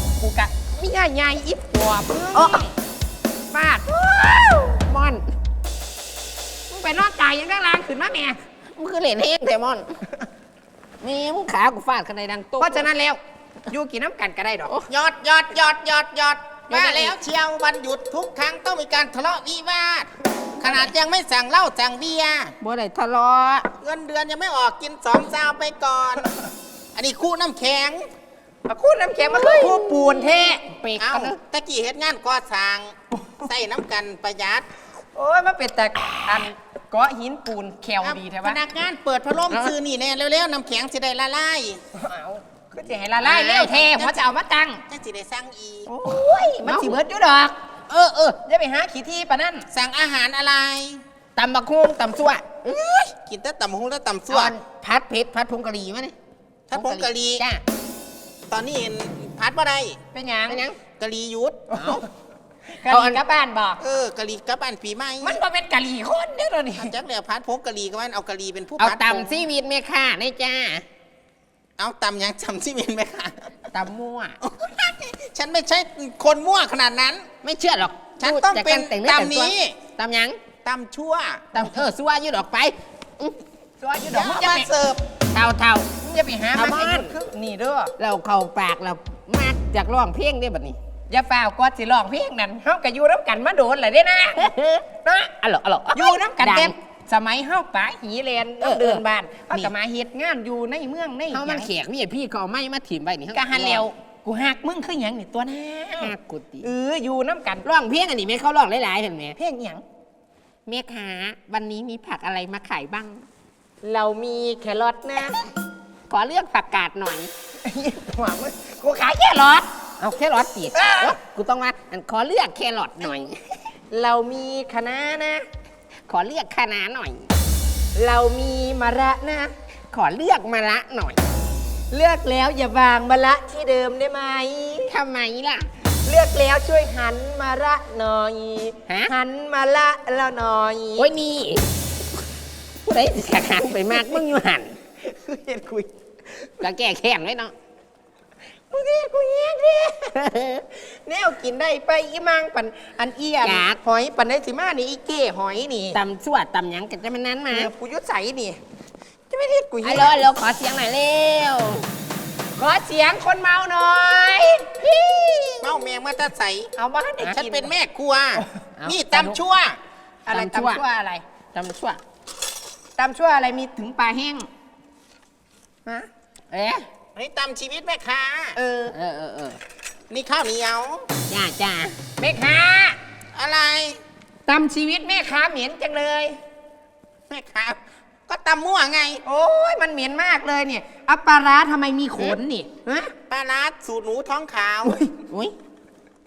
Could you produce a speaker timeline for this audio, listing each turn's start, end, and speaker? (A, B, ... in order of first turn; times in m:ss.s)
0:00.2-0:02.7 A
0:02.3-0:02.6 B
0:03.5-0:04.8 A
0:04.8-0:05.2 B
0:06.7-0:08.4 A
0:08.7-0:10.0 B
0:11.0-0:12.9 B
0:12.6-0:14.7 A
0:14.9-0:22.5 C
0:16.7-0:17.1 B
0:22.6-0:23.7 B
0:23.8-0:26.3 C
0:26.9-0:28.1 C
0:28.7-0:30.8 A
0:29.4-0:29.7 B
0:30.7-0:31.3 B
0:31.0-0:34.7 C
0:35.1-0:38.6 A
0:38.0-0:41.8 C
0:41.9-0:44.8 A
0:43.2-0:44.3 C
0:44.9-0:45.9 C
0:45.9-0:49.6 A
0:46.1-0:47.0 B
0:49.7-0:51.0 C
0:51.4-0:53.1 B
0:53.2-0:54.5 C
0:54.3-0:56.1 B
0:56.7-0:57.4 C
0:56.7-0:57.6 B
0:58.5-1:00.0 C
1:00.1-1:00.7 A
1:00.5-1:00.8 B
1:00.8-1:01.6 C
1:01.7-1:02.0 B
1:01.8-1:02.0 A
1:02.7-1:03.8 A
1:02.8-1:03.2 B
1:03.8-1:05.4 C
1:05.2-1:06.9 A
1:06.7-1:09.4 C
1:08.8-1:10.8 B
1:11.8-1:13.5 C
1:13.7-1:14.4 B
1:14.5-1:17.3 C
1:17.4-1:20.4 B
1:18.2-1:19.8 C
1:20.6-1:21.4 C
1:21.5-1:23.4 B
1:23.8-1:24.7 A
1:24.1-1:25.0 C
1:25.3-1:27.1 B
1:26.0-1:27.9 A
1:28.0-1:30.8 B
1:31.1-1:35.3 A
1:34.4-1:36.8 B
1:35.9-1:41.7 A
1:38.6-1:39.7 B
1:41.3-1:43.9 B
1:43.3-1:47.6 A
1:46.0-1:46.7 B
1:47.6-1:49.4 B
1:49.4-1:49.8 A
1:50.6-1:53.2 B
1:53.8-1:55.4 A
1:56.1-1:57.3 B
1:57.6-1:59.7 A
2:00.0-2:03.4 B
2:00.7-2:01.2 A
2:03.9-2:05.5 A
2:06.1-2:07.3 B
2:07.9-2:09.5 A
2:09.9-2:11.2 B
2:11.9-2:14.9 A
2:14.9-2:15.7 B
2:16.0-2:21.1 A
2:18.9-2:19.1 B
2:21.0-2:21.6 B
2:22.8-2:24.8 B
2:23.6-2:24.2 A
2:25.0-2:25.9 A
2:26.6-2:27.5 B
2:28.7-2:30.1 A
2:30.1-2:30.6 B
2:30.8-2:36.0 A
2:33.4-2:33.8 B
2:35.9-2:37.7 B
2:37.5-2:38.6 A
2:39.3-2:40.2 A
2:39.8-2:41.9 B
2:42.6-2:45.7 A
2:45.6-2:49.8 C
2:46.8-2:47.7 A
2:48.8-2:49.3 B
2:50.2-2:51.2 A
2:50.3-2:50.8 B
2:51.5-2:52.0 B
2:53.0-2:54.5 A
2:56.5-2:56.8 B
2:57.2-2:58.6 C
2:58.6-2:58.9 A
2:58.9-2:59.6 B
3:00.1-3:01.1 C
3:01.3-3:02.1 B
3:02.1-3:03.0 A
3:03.3-3:04.0 C
3:04.5-3:06.4 A
3:07.3-3:09.2 C
3:09.2-3:13.1 A
3:13.3-3:15.0 C
3:15.3-3:15.5 B